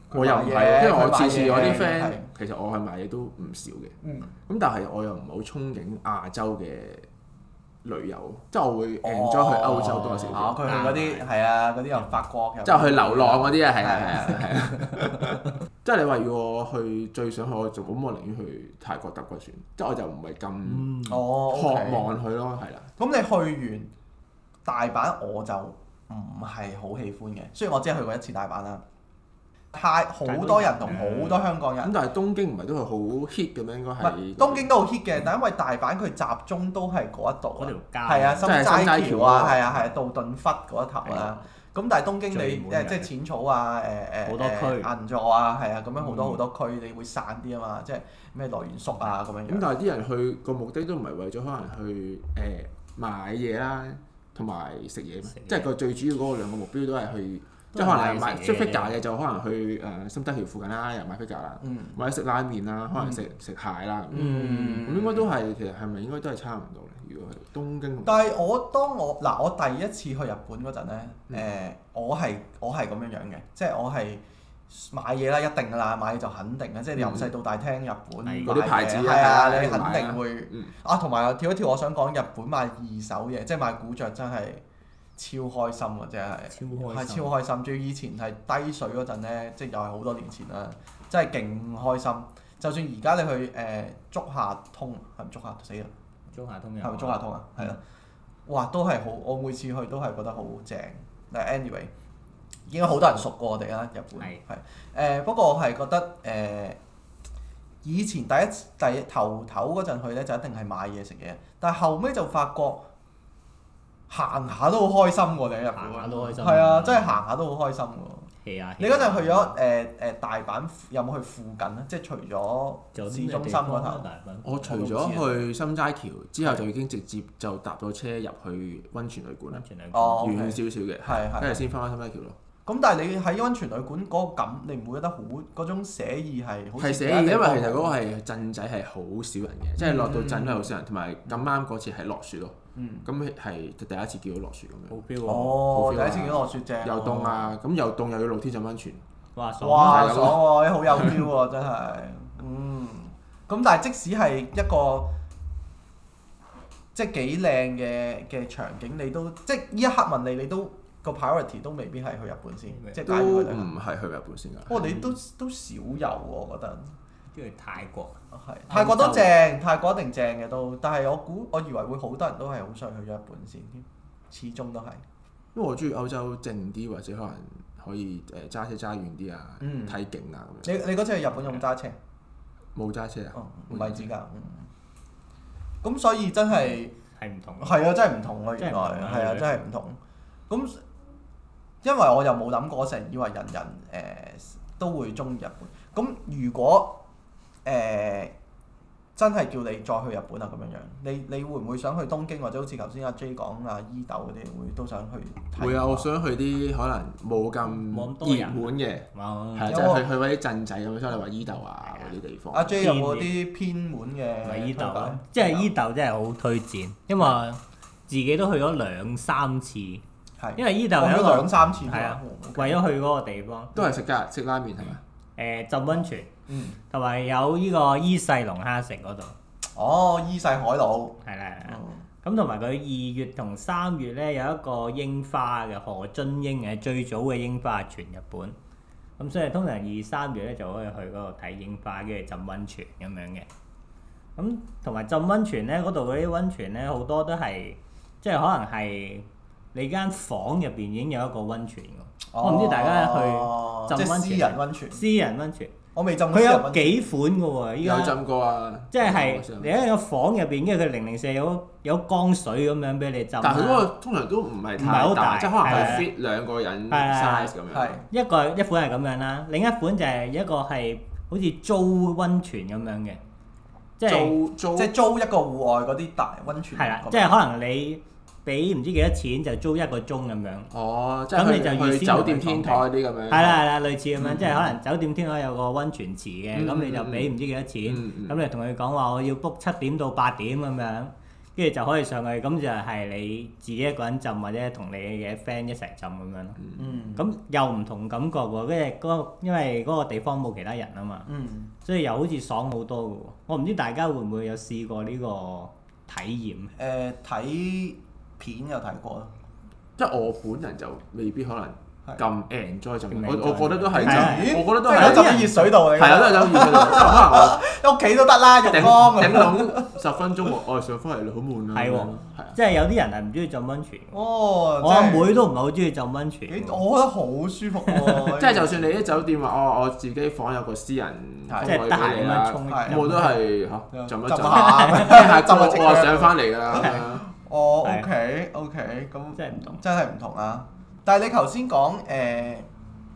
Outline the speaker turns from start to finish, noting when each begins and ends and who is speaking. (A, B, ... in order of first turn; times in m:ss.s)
0:00.1-0:02.3 A
0:00.1-0:03.9 B
0:04.0-0:04.3 A
0:04.5-0:07.0 B
0:07.8-0:10.6 B
0:09.0-0:14.5 A
0:10.6-0:11.3 C
0:12.6-0:21.0 B
0:20.7-0:21.2 C
0:21.0-0:22.1 A
0:21.5-0:22.9 B
0:23.0-0:23.9 A
0:24.6-0:28.8 A
0:29.7-0:31.9 A
0:30.2-0:31.4 C
0:31.8-0:34.7 B
0:34.0-0:49.7 A
0:37.6-0:38.7 C
0:38.4-0:39.9 B
0:41.0-0:41.4 B
0:42.3-0:43.1 C
0:44.2-0:44.9 C
0:46.0-0:46.4 B
0:49.5-1:08.3 B
0:55.3-0:55.7 C
0:57.7-0:58.9 C
1:01.6-1:02.0 A
1:03.0-1:03.2 A
1:04.1-1:05.3 A
1:08.0-1:24.6 A
1:17.0-1:17.3 B
1:18.2-1:18.6 C
1:18.4-1:20.7 B
1:25.2-1:35.9 A
1:26.5-1:27.3 C
1:36.3-1:37.7 C
1:36.8-1:37.8 A
1:38.5-1:41.9 A
1:42.7-1:46.8 A
1:47.8-1:52.8 A
1:54.1-2:04.1 A
1:55.7-1:57.2 C
1:58.4-1:59.6 C
2:02.9-2:04.7 C
2:04.4-2:09.6 B
2:04.6-2:05.4 A
2:09.5-2:10.3 C
2:09.9-2:11.7 A
2:10.2-2:12.4 B
2:12.6-2:17.9 A
2:16.8-2:25.0 B
2:19.8-2:20.7 A
2:22.7-2:23.1 A
2:24.9-2:25.7 C
2:25.2-2:27.5 A
2:25.6-2:29.0 B
2:29.3-2:30.2 C
2:29.6-2:35.1 A
2:29.8-2:31.2 B
2:36.9-2:43.7 A
2:42.7-2:43.0 C
2:43.0-2:44.8 B
2:44.7-2:47.0 A
2:44.8-2:45.1 C
2:47.3-2:48.2 C
2:48.3-2:55.0 A
2:48.7-2:49.3 C
2:55.5-3:00.8 B
2:59.6-3:00.0 A
3:00.6-3:02.0 A
3:02.7-3:04.1 B
3:03.3-3:04.7 A
3:05.8-3:06.9 A
3:07.2-3:07.8 C
3:07.6-3:10.0 A
3:08.6-3:09.6 C
3:10.5-3:10.8 A
3:11.8-3:17.0 A
3:17.6-3:18.3 A
3:19.2-3:26.1 A
3:25.6-3:32.8 B
3:27.9-3:29.8 C
3:29.7-3:30.0 A
3:31.8-3:32.2 C
3:32.5-3:35.7 A
3:32.8-3:33.3 C
3:34.4-3:40.0 C
3:40.4-3:42.8 A
3:40.6-3:43.7 C
3:43.7-3:45.0 B
3:45.4-3:46.3 C
3:46.5-3:46.8 A
3:46.9-3:49.3 C
3:49.8-3:52.0 A
3:51.2-3:58.6 C
3:59.2-4:03.5 C
4:04.4-4:15.7 C
4:12.3-4:15.0 A
4:15.9-4:17.1 A
4:16.3-4:18.2 C
4:17.8-4:19.8 B
4:18.9-4:23.9 C
4:23.4-4:28.0 B
4:24.8-4:26.1 C
4:26.9-4:27.5 C
4:27.7-4:28.0 A
4:28.1-4:33.2 C
4:34.0-4:34.3 C
4:34.0-4:34.9 B
4:34.7-4:37.4 A
4:36.7-4:40.7 C
4:40.7-4:43.6 B
4:41.3-4:56.6 C
4:44.2-4:44.7 B
4:46.5-4:47.3 B
4:47.8-4:48.4 B
4:56.8-4:57.2 A
4:57.1-5:01.3 C
5:01.3-5:01.7 A
5:01.8-5:06.7 C
5:06.8-5:09.3 A
5:10.0-5:17.6 B
5:13.1-5:15.7 C
5:13.9-5:20.0 A
5:18.6-5:22.6 B
5:21.7-5:24.2 C
5:24.1-5:25.4 A
5:24.8-5:26.8 C
5:26.5-5:28.9 A
5:27.8-5:28.3 C
5:28.3-5:37.2 B
5:31.5-5:31.8 A
5:31.6-5:33.3 C
5:32.7-5:33.2 A
5:33.9-5:42.7 A
5:34.5-5:35.2 C
5:36.8-5:37.0 C
5:39.4-5:39.8 C